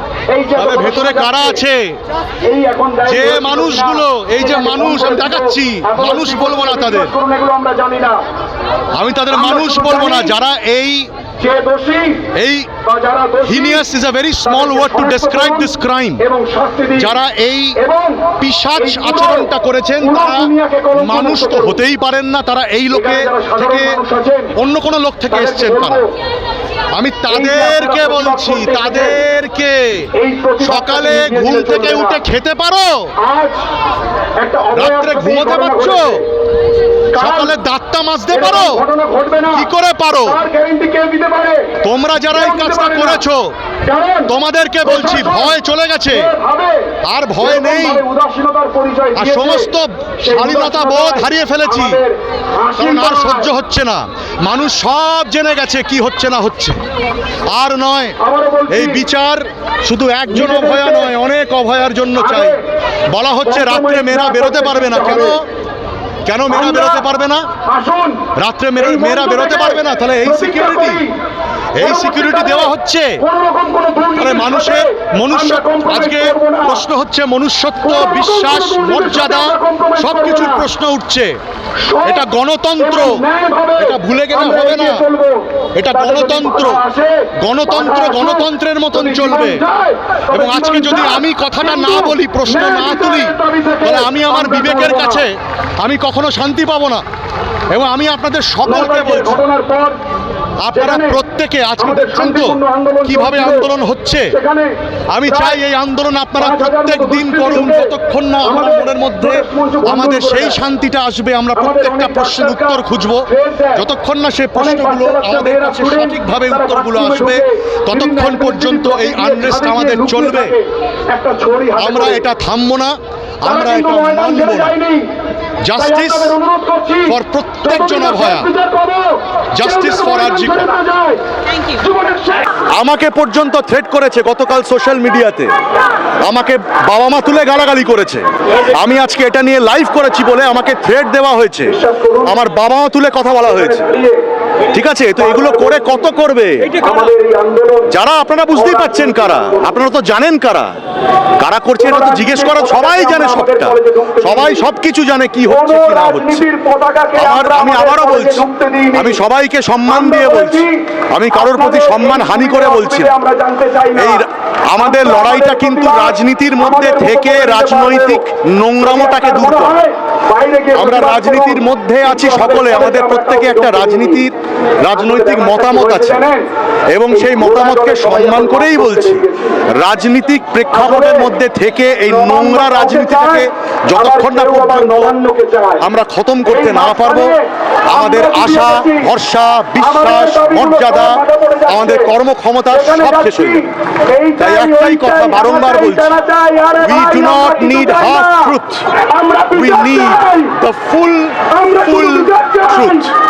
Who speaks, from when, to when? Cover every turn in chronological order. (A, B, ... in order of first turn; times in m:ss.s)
0:00.3-0:01.6 A
0:00.6-0:02.0 B
0:02.4-0:08.2 A
0:03.0-0:07.1 B
0:09.0-0:11.1 B
0:09.3-0:10.3 A
0:11.4-0:12.3 A
0:12.3-0:12.7 B
0:12.8-0:13.8 A
0:13.4-0:16.2 B
0:14.4-0:17.1 A
0:17.0-0:17.8 B
0:17.8-0:19.5 A
0:18.4-0:24.0 B
0:20.0-0:21.8 A
0:22.9-0:24.5 A
0:24.5-0:26.0 B
0:25.3-0:26.1 A
0:27.0-0:30.1 B
0:27.3-0:29.2 A
0:30.1-0:32.2 A
0:30.6-0:33.1 B
0:33.2-0:33.6 A
0:34.4-0:36.3 A
0:34.7-0:36.2 B
0:37.1-0:37.5 A
0:37.2-0:38.8 B
0:38.3-0:39.7 A
0:39.5-0:40.4 B
0:40.2-0:41.8 A
0:41.8-0:43.4 B
0:42.3-0:43.2 A
0:43.8-0:44.3 A
0:44.3-0:46.3 B
0:44.8-0:45.6 A
0:46.1-0:49.7 A
0:47.0-0:48.0 B
0:49.1-0:52.0 B
0:50.2-0:53.5 A
0:52.8-0:56.8 B
0:57.5-0:58.2 B
0:58.2-0:59.0 A
0:58.7-1:05.4 B
1:00.3-1:01.1 A
1:02.2-1:02.6 A
1:03.4-1:05.4 A
1:06.2-1:07.4 B
1:06.5-1:07.1 A
1:07.7-1:08.3 A
1:08.4-1:11.0 B
1:08.8-1:11.1 A
1:11.8-1:13.2 B
1:11.8-1:16.8 A
1:14.2-1:21.3 B
1:17.8-1:20.6 A
1:21.8-1:22.3 A
1:22.0-1:23.2 B
1:22.8-1:35.2 A
1:23.8-1:25.0 B
1:25.8-1:26.8 B
1:27.4-1:29.6 B
1:30.3-1:37.0 B
1:37.7-1:39.4 B
1:38.6-1:40.0 A
1:40.6-1:44.3 B
1:40.7-1:41.2 A
1:41.8-1:43.7 A
1:44.3-1:44.7 A
1:45.1-2:00.6 B
1:45.2-1:45.6 A
1:46.4-1:47.9 A
1:48.4-1:50.6 A
1:51.6-1:53.8 A
1:54.5-2:02.2 A
2:01.8-2:04.7 B
2:03.4-2:05.1 A
2:05.6-2:06.3 B
2:05.7-2:12.4 A
2:07.0-2:08.5 B
2:09.6-2:10.7 B
2:12.7-2:15.5 B
2:16.2-2:23.9 B
2:21.6-2:22.4 A
2:23.5-2:24.2 A
2:24.7-2:26.8 B
2:25.2-2:26.1 A
2:26.8-2:27.9 A
2:27.9-2:30.7 B
2:28.5-2:29.8 A
2:31.4-2:36.4 B
2:31.8-2:34.7 A
2:35.4-2:39.2 A
2:37.2-2:43.1 B
2:39.9-2:40.7 A
2:41.3-2:44.2 A
2:44.0-2:49.8 B
2:44.8-2:48.2 A
2:48.8-2:54.2 A
2:50.7-2:54.3 B
2:54.9-2:56.2 B
2:54.9-2:56.4 A
2:56.9-2:59.2 B
2:57.1-2:59.6 A
2:59.8-3:05.1 B
3:00.7-3:01.3 A
3:02.0-3:05.9 A
3:05.8-3:07.3 B
3:06.4-3:09.1 A
3:07.9-3:13.6 B
3:09.8-3:12.1 A
3:12.7-3:18.5 A
3:14.4-3:16.1 B
3:16.8-3:18.8 B
3:19.0-3:20.6 A
3:19.5-3:23.1 B
3:21.5-3:23.1 A